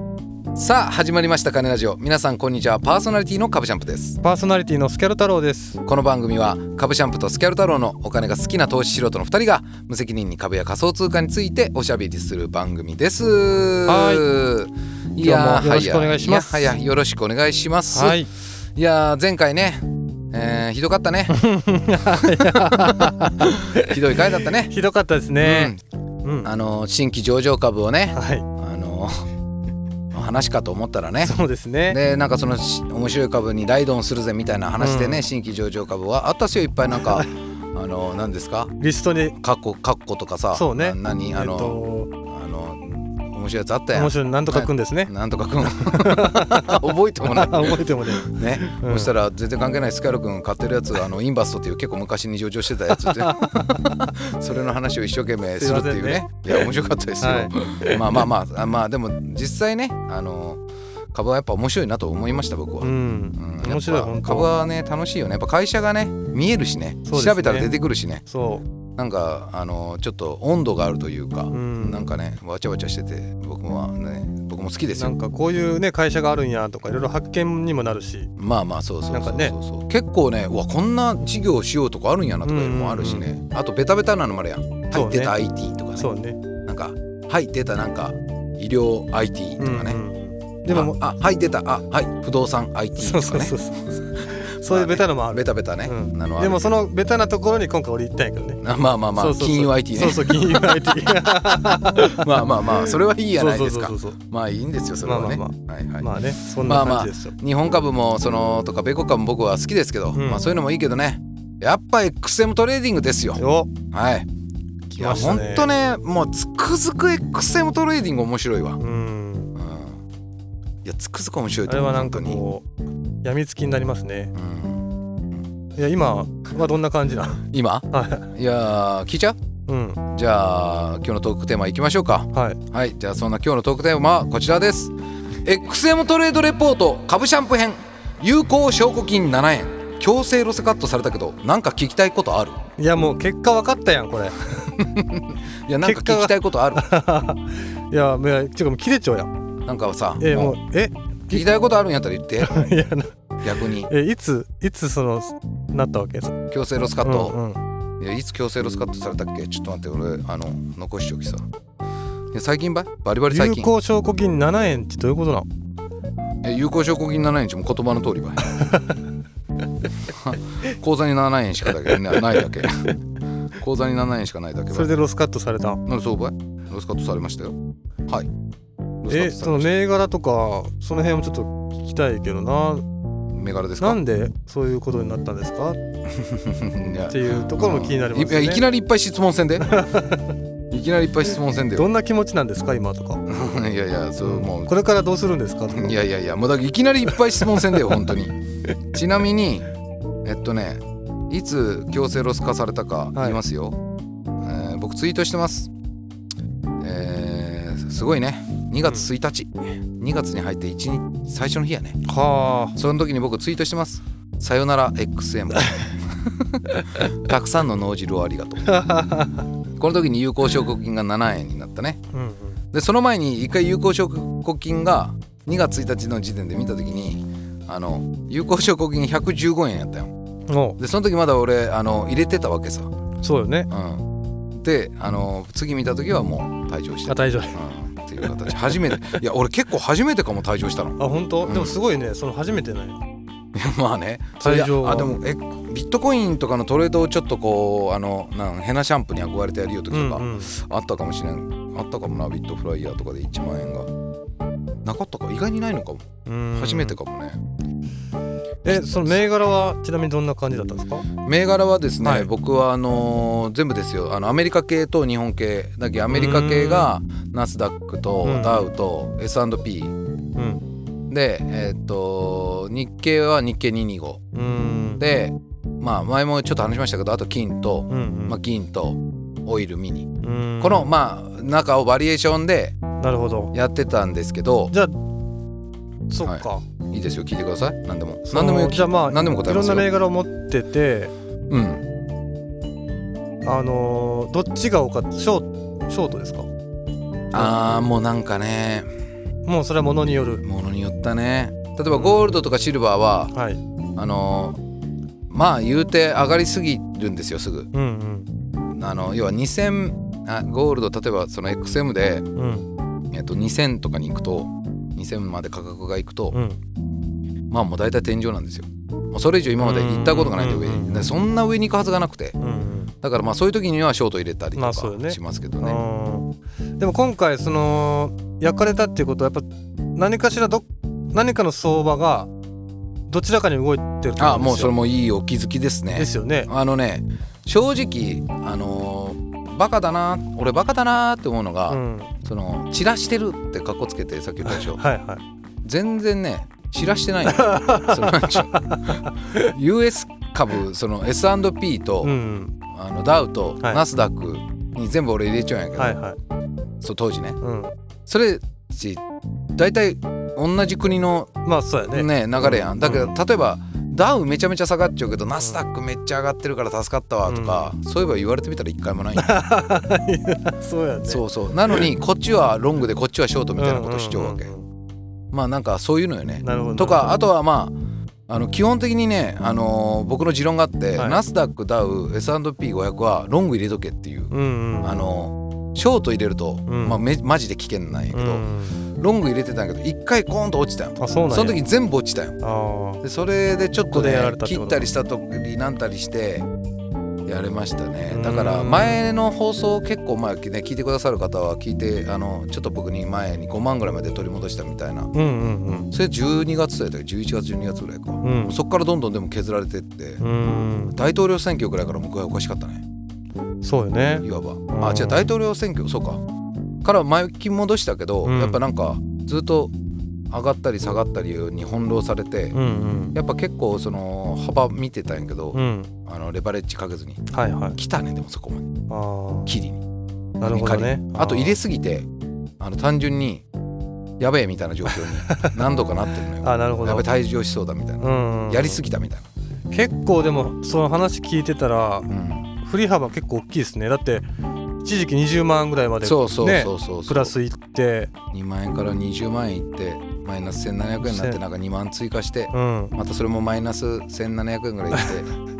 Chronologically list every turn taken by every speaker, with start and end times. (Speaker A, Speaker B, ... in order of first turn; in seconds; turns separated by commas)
Speaker A: 0.6-4.2, Speaker B: 4.2-5.8, Speaker A: 5.8-18.2, Speaker B: 13.9-14.3, Speaker B: 15.2-16.8, Speaker B: 17.9-18.3, Speaker A: 18.8-21.4, Speaker B: 21.3-26.5, Speaker A: 21.9-24.8, Speaker A: 25.4-25.8, Speaker A: 26.4-29.3, Speaker B: 28.1-28.5, Speaker A: 30.1-31.4, Speaker B: 31.2-32.0, Speaker A: 31.9-38.8, Speaker B: 34.8-35.3, Speaker B: 38.8-39.4, Speaker A: 39.4-68.2, Speaker B: 40.5-42.1, Speaker B: 43.9-49.1, Speaker B: 53.0-53.8, Speaker B: 55.6-56.7, Speaker B: 57.2-58.2, Speaker B: 62.8-64.5, Speaker B: 67.1-67.7, Speaker B: 68.3-68.7, Speaker A: 69.0-75.2, Speaker B: 71.5-72.1, Speaker B: 75.0-78.3, Speaker A: 78.4-86.1, Speaker B: 79.1-79.6, Speaker B: 82.5-83.3, Speaker B: 84.9-85.4, Speaker B: 86.0-86.4, Speaker A: 86.6-90.0, Speaker B: 89.6-91.0, Speaker A: 90.7-93.6, Speaker B: 93.0-104.2, Speaker A: 94.1-96.7, Speaker A: 98.6-114.3, Speaker B: 105.0-107.3, Speaker B: 110.2-110.5, Speaker B: 113.4-113.7, Speaker A: 114.9-118.8, Speaker B: 115.0-115.7, Speaker B: 118.8-119.5, Speaker A: 119.6-120.0, Speaker A: 120.8-122.4, Speaker B: 121.7-122.7, Speaker B: 123.2-124.3, Speaker A: 124.3-124.9, Speaker B: 125.8-128.3, Speaker A: 127.5-129.4, Speaker B: 129.7-130.0, Speaker A: 130.1-134.9, Speaker B: 132.3-132.6, Speaker A: 135.4-142.6, Speaker B: 142.8-144.9, Speaker A: 144.8-146.9, Speaker B: 145.8-149.3, Speaker A: 149.7-150.6, Speaker B: 150.2-151.4, Speaker A: 151.3-152.7, Speaker B: 152.4-153.2, Speaker A: 153.4-153.9, Speaker B: 153.8-156.4, Speaker A: 156.5-157.4, Speaker B: 157.0-157.6, Speaker A: 158.0-161.5, Speaker A: 162.3-163.7, Speaker B: 163.3-165.5, Speaker A: 166.4-168.6, Speaker B: 168.5-168.8, Speaker A: 170.0-172.9, Speaker A: 173.5-174.9, Speaker B: 174.7-175.8, Speaker A: 175.9-177.6, Speaker A: 179.0-179.7, Speaker B: 179.1-182.8, Speaker A: 183.3-184.0, Speaker B: 183.8-185.8, Speaker A: 186.1-189.7, Speaker B: 187.1-188.7, Speaker B: 189.6-190.4, Speaker A: 190.7-191.9, Speaker B: 191.7-193.2, Speaker A: 193.3-194.7, Speaker B: 194.2-196.0, Speaker A: 195.7-198.4, Speaker B: 197.4-198.0, Speaker A: 198.9-199.7, Speaker A: 200.2-203.8, Speaker B: 203.2-203.4, Speaker A: 204.4-205.7, Speaker A: 206.8-212.0, Speaker B: 212.1-212.8, Speaker A: 212.8-218.8, Speaker B: 218.7-219.5, Speaker A: 219.8-222.0, Speaker B: 222.1-222.6, Speaker A: 222.7-230.1, Speaker B: 230.5-230.8, Speaker A: 230.8-232.9, Speaker B: 233.2-233.7, Speaker A: 233.7-241.7, Speaker B: 237.1-237.6, Speaker B: 241.0-243.0, Speaker A: 243.5-253.9, Speaker B: 244.4-245.2, Speaker B: 249.9-250.5, Speaker A: 254.8-257.4, Speaker B: 256.3-257.0, Speaker B: 258.6-261.1, Speaker A: 258.7-259.2, Speaker A: 261.2-269.9, Speaker B: 262.0-262.3, Speaker B: 266.1-266.9, Speaker B: 268.2-268.7, Speaker B: 270.4-270.6, Speaker A: 271.1-274.2, Speaker B: 274.3-275.0, Speaker A: 275.0-282.8, Speaker B: 277.9-278.4, Speaker B: 280.2-280.9, Speaker B: 283.0-283.5, Speaker A: 283.5-284.7, Speaker B: 284.7-285.0, Speaker B: 286.1-286.6, Speaker A: 286.2-289.9, Speaker B: 288.3-291.1, Speaker A: 291.5-291.8, Speaker B: 293.4-296.5, Speaker A: 297.3-298.9, Speaker B: 299.5-300.4, Speaker A: 300.4-303.3, Speaker B: 301.9-302.4, Speaker B: 303.3-303.6, Speaker A: 304.0-304.6, Speaker A: 305.3-307.7, Speaker B: 307.7-308.3, Speaker A: 308.7-312.3, Speaker B: 312.4-312.7, Speaker A: 313.1-316.4, Speaker B: 316.3-316.6, Speaker A: 317.5-322.4, Speaker B: 319.6-321.1, Speaker B: 322.4-322.9, Speaker A: 323.0-325.8, Speaker B: 324.6-332.3, Speaker B: 333.1-334.7, Speaker A: 334.2-344.8, Speaker B: 335.9-336.5, Speaker B: 341.7-342.1, Speaker B: 344.4-345.2, Speaker A: 345.6-352.1, Speaker B: 347.3-349.0, Speaker B: 352.0-352.6, Speaker A: 352.7-356.0, Speaker B: 355.8-356.2, Speaker A: 356.8-357.4, Speaker B: 357.4-357.7, Speaker A: 358.1-359.0, Speaker A: 359.6-361.3, Speaker B: 361.4-363.1, Speaker A: 361.9-369.5, Speaker B: 365.4-365.6, Speaker B: 367.3-367.7, Speaker B: 369.2-371.9, Speaker A: 371.1-374.5, Speaker B: 373.6-374.7, Speaker A: 375.3-377.8, Speaker B: 376.4-377.2, Speaker A: 378.3-388.4, Speaker B: 380.9-381.2, Speaker B: 384.3-385.1, Speaker B: 386.7-387.0, Speaker B: 388.1-388.8, Speaker A: 389.0-392.4, Speaker B: 391.0-391.6, Speaker B: 392.4-393.0, Speaker A: 393.0-396.5, Speaker B: 393.9-394.9, Speaker A: 397.3-405.1, Speaker B: 398.1-399.0, Speaker B: 405.1-405.9, Speaker A: 405.9-410.2, Speaker B: 408.2-408.6, Speaker B: 410.2-411.0, Speaker A: 410.9-412.8, Speaker B: 413.6-415.3, Speaker A: 414.2-416.2, Speaker A: 416.8-419.7, Speaker B: 418.2-418.6, Speaker A: 420.3-422.6, Speaker B: 422.5-423.2, Speaker A: 423.1-428.7, Speaker B: 425.5-425.9, Speaker B: 427.3-427.8, Speaker B: 428.9-429.5, Speaker A: 429.5-429.8, Speaker B: 430.4-431.6, Speaker A: 430.4-432.1, Speaker A: 432.6-433.4, Speaker A: 434.2-439.3, Speaker B: 434.9-435.6, Speaker B: 436.4-437.1, Speaker B: 438.0-438.8, Speaker B: 439.7-442.1, Speaker A: 442.1-442.5, Speaker B: 442.6-444.3, Speaker B: 444.8-448.1, Speaker A: 446.0-447.3, Speaker A: 448.3-455.3, Speaker B: 451.0-451.4, Speaker B: 452.5-453.0